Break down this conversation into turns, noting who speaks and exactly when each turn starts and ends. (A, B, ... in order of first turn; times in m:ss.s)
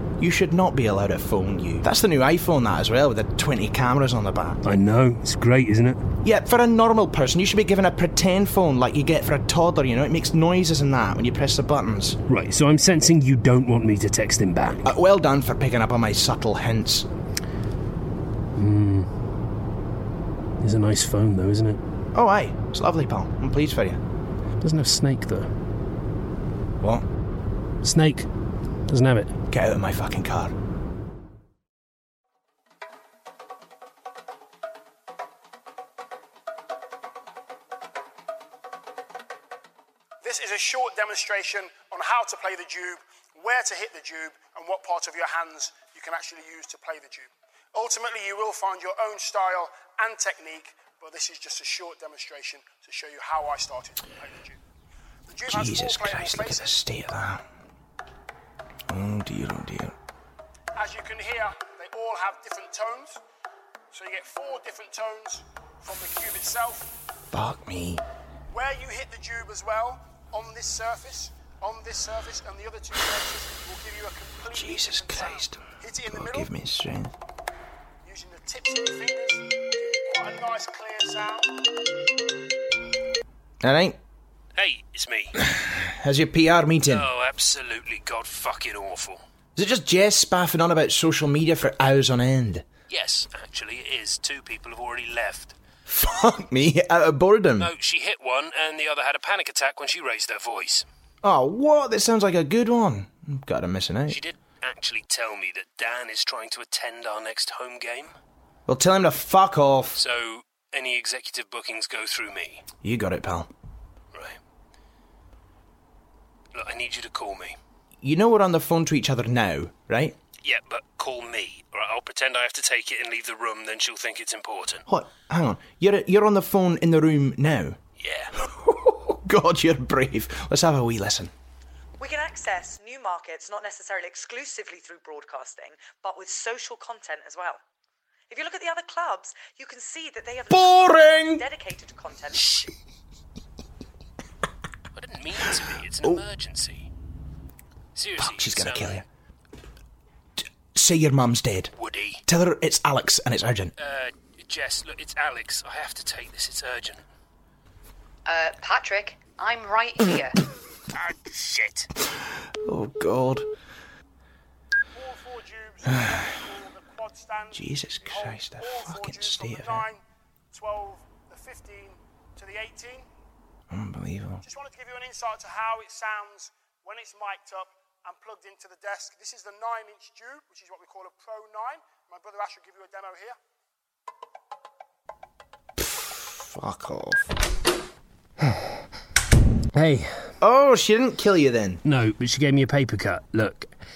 0:00.2-0:04.6 A
0:04.6-0:06.0 B
0:06.2-0:12.2 A
0:12.3-0:14.9 B
0:14.8-0:17.0 A
0:18.6-0:19.1 B
0:20.6-0:21.8 B
0:22.1-0:24.0 A
0:24.6-0:25.5 B
0:27.8-0:28.3 B
0:28.9-0:29.3 B
0:29.5-0:30.5 A
0:40.2-0:54.6 C
0:55.3-0:56.8 C
0:55.5-0:57.4 A
0:58.9-0:59.9 A
1:00.8-1:03.2 C
1:03.9-1:06.9 C
1:07.3-1:08.0 A
1:08.5-1:16.5 C
1:14.5-1:17.1 A
1:18.0-1:21.9 C
1:23.6-1:24.0 A
1:24.6-1:25.4 B
1:25.4-1:27.0 A
1:26.9-1:29.2 B
1:29.6-1:32.6 A
1:32.9-1:35.6 B
1:35.9-1:37.7 A
1:37.6-1:40.8 B
1:41.2-1:44.2 A
1:44.1-1:48.1 B
1:48.7-1:50.0 A
1:49.9-1:52.6 B
1:52.8-1:53.5 A
1:54.1-1:54.4 B
1:56.5-1:57.6 B
1:58.0-2:00.1 A
2:00.4-2:04.8 B
2:04.9-2:07.8 A
2:08.0-2:08.3 B
2:08.4-2:11.3 A
2:12.0-2:17.6 D
2:18.3-2:22.6 D
2:20.5-2:21.4 A
2:24.9-2:26.9 B
2:28.0-2:29.0 B
2:28.2-2:29.0 A
2:30.7-2:31.7 A
2:31.8-2:32.2 B
2:32.2-2:33.7 A
2:33.8-2:37.0 B
2:38.2-2:40.4 E
2:40.9-2:41.9 B
2:42.6-2:43.5 A
2:44.9-2:53.0 C
2:45.9-2:46.3 A
2:47.5-2:49.8 A
2:53.7-2:54.4 A
2:54.4-3:03.4 C
3:05.8-3:07.3 A
3:09.7-3:10.3 B
3:10.4-3:11.8 A
3:11.8-3:13.7 B